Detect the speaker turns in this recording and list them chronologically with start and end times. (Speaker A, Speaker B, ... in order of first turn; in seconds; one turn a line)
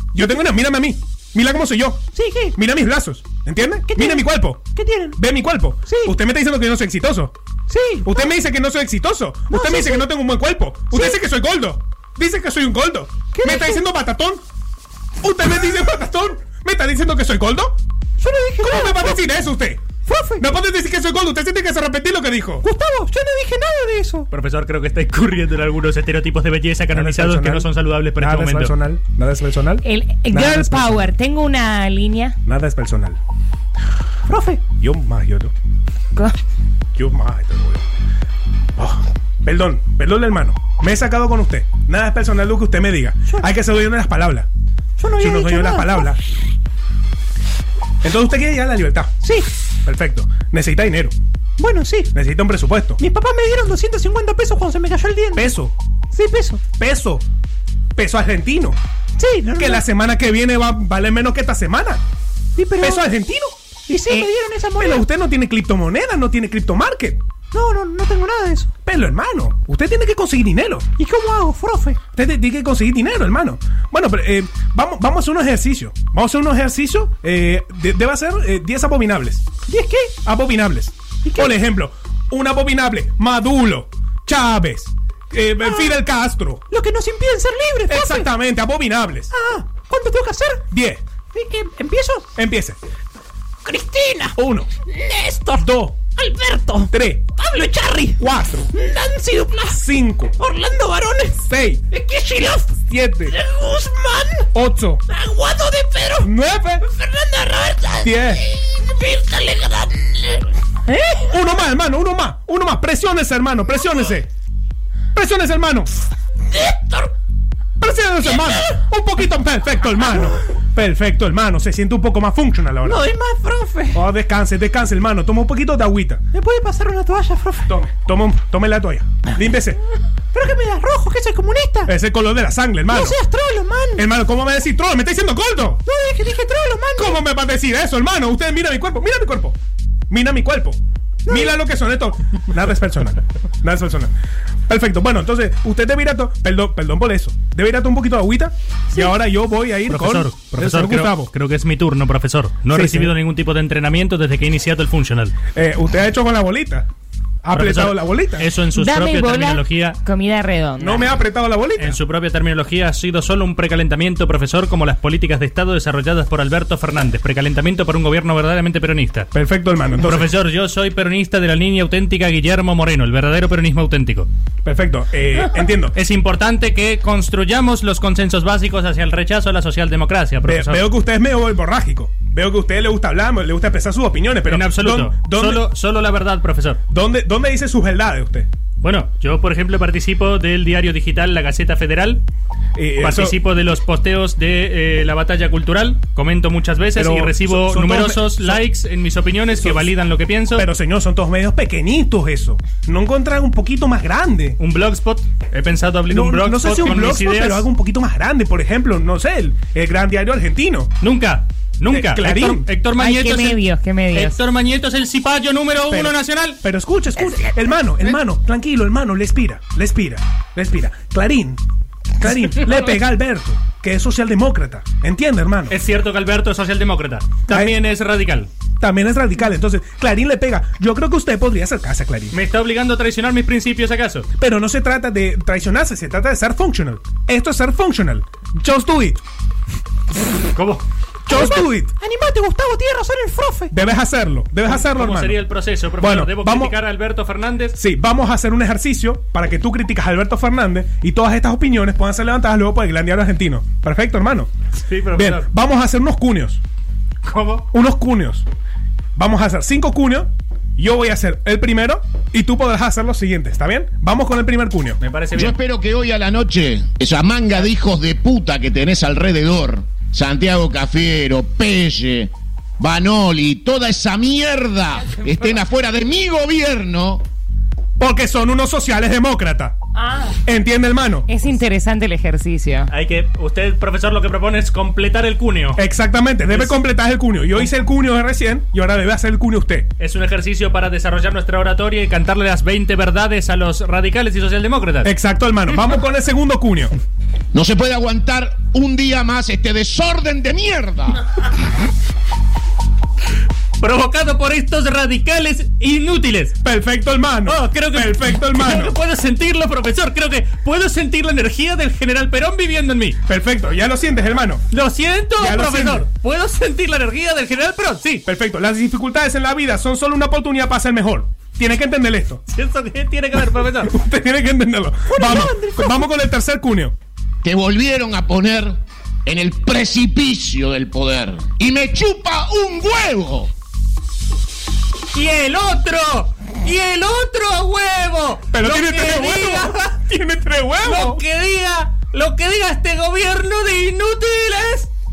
Speaker A: 0.1-7.3
Speaker B: 2.1-2.5
Speaker B: 3.9-5.2
Speaker B: 5.9-6.1
Speaker B: 7.7-8.3
Speaker A: 8.0-14.4
Speaker B: 9.5-10.1
Speaker B: 10.9-11.2
Speaker B: 13.3-13.8
Speaker A: 15.2-17.8
Speaker B: 18.2-19.2
Speaker A: 18.6-22.7
Speaker B: 20.1-20.4
Speaker B: 22.6-24.3
Speaker C: 24.3-28.7
Speaker A: 26.9-31.2
Speaker D: 29.8-32.4
Speaker A: 32.5-33.2
Speaker B: 34.3-34.7
Speaker A: 34.7-35.5
Speaker A: 37.0-37.8
Speaker A: 38.8-44.5
Speaker B: 45.0-46.2
Speaker A: 45.1-46.2
Speaker A: 48.0-49.1
Speaker A: 49.9-51.1
Speaker B: 51.6-52.1
Speaker A: 52.1-53.0
Speaker B: 53.0-55.5
Speaker A: 55.3-55.7
Speaker B: 56.1-56.7
Speaker A: 56.7-57.2
Speaker A: 58.0-58.8
Speaker B: 59.2-59.8
Speaker A: 59.6-62.0
Speaker B: 62.6-63.0
Speaker A: 62.8-63.6
Speaker B: 63.9-65.0
Speaker A: 64.8-67.2
Speaker B: 67.5-68.7
Speaker A: 68.8-70.9
Speaker B: 71.0-72.0
Speaker A: 72.1-79.5
Speaker B: 79.7-80.2
Speaker A: 80.2-86.6
Speaker B: 85.6-86.0
Speaker B: 86.7-88.3
Speaker A: 87.9-89.3
Speaker B: 89.3-90.6
Speaker A: 90.7-91.0
Speaker B: 91.3-92.3
Speaker A: 92.4-92.8
Speaker B: 93.7-94.3
Speaker A: 94.3-94.7
Speaker B: 94.9-95.7
Speaker A: 95.6-96.1
Speaker B: 96.2-98.2
Speaker A: 96.9-97.2
Speaker A: 98.2-98.7
Speaker B: 98.7-99.8
Speaker A: 99.7-100.4
Speaker B: 100.4-101.4
Speaker A: 101.4-101.8
Speaker B: 101.9-104.5
Speaker A: 102.8-103.4
Speaker A: 104.5-105.0
Speaker B: 105.1-106.3
Speaker A: 106.2-106.8
Speaker B: 106.9-111.3
Speaker A: 108.0-108.4
Speaker A: 111.3-114.3
Speaker A: 115.2-115.9
Speaker B: 116.5-117.1
Speaker A: 117.8-123.0
Speaker B: 122.8-124.0
Speaker A: 123.9-126.2
Speaker B: 126.3-127.7
Speaker A: 127.7-129.8
Speaker B: 130.3-131.9
Speaker A: 131.9-133.2
Speaker B: 132.9-134.1
Speaker A: 133.9-135.8
Speaker B: 135.9-137.2
Speaker A: 137.0-139.6
Speaker A: 140.1-144.1
Speaker B: 141.3-141.6
Speaker A: 144.7-151.3
Speaker C: 149.9-155.3
Speaker A: 152.7-153.1
Speaker A: 155.6-156.9
Speaker A: 157.4-158.5
Speaker C: 157.5-160.0
Speaker D: 158.7-161.2
Speaker A: 160.8-162.0
Speaker C: 161.8-169.3
Speaker A: 169.3-170.3
Speaker C: 170.0-174.3
Speaker A: 174.7-176.0
Speaker C: 175.9-180.8
Speaker A: 180.4-185.7
Speaker C: 184.5-186.8
Speaker A: 186.9-188.5
Speaker C: 188.8-192.2
Speaker A: 192.8-193.4
Speaker C: 193.0-200.7
Speaker A: 196.9-198.6
Speaker A: 199.6-199.9
Speaker A: 200.5-204.6
Speaker C: 204.6-207.7
Speaker A: 206.1-210.9
Speaker C: 211.0-213.6
Speaker A: 211.9-212.7
Speaker D: 213.0-214.4
Speaker C: 214.1-216.6
Speaker A: 215.9-221.6
Speaker A: 222.2-225.8
Speaker C: 225.7-228.5
Speaker A: 227.5-227.8
Speaker A: 228.8-232.4
Speaker C: 232.3-234.3
Speaker A: 234.4-239.2
Speaker C: 240.5-240.8
Speaker A: 241.3-241.9
Speaker B: 241.3-243.7
Speaker A: 243.7-245.4
Speaker C: 244.7-247.8
Speaker A: 246.0-246.8
Speaker A: 247.7-254.5
Speaker C: 254.9-255.5
Speaker A: 255.1-256.6
Speaker C: 257.3-257.6
Speaker A: 257.7-258.5
Speaker A: 259.2-265.0
Speaker C: 265.0-265.6
Speaker E: 265.4-277.2
Speaker A: 278.0-279.8
Speaker D: 280.0-280.4
Speaker A: 280.5-281.3
Speaker D: 281.3-282.9
Speaker C: 282.9-285.8
Speaker A: 285.8-289.9
Speaker C: 286.5-286.8
Speaker C: 290.0-295.1
Speaker A: 295.0-296.9
Speaker E: 297.5-301.2
Speaker C: 303.8-306.6
Speaker A: 306.6-309.0
Speaker C: 307.5-313.2
Speaker A: 313.3-314.6
Speaker C: 314.7-318.2
Speaker A: 315.4-316.1
Speaker A: 318.3-322.4
Speaker C: 322.5-323.9
Speaker A: 323.9-326.9
Speaker B: 325.1-326.1
Speaker E: 327.4-333.5
Speaker C: 335.1-340.0
Speaker A: 338.5-341.2
Speaker C: 340.8-344.9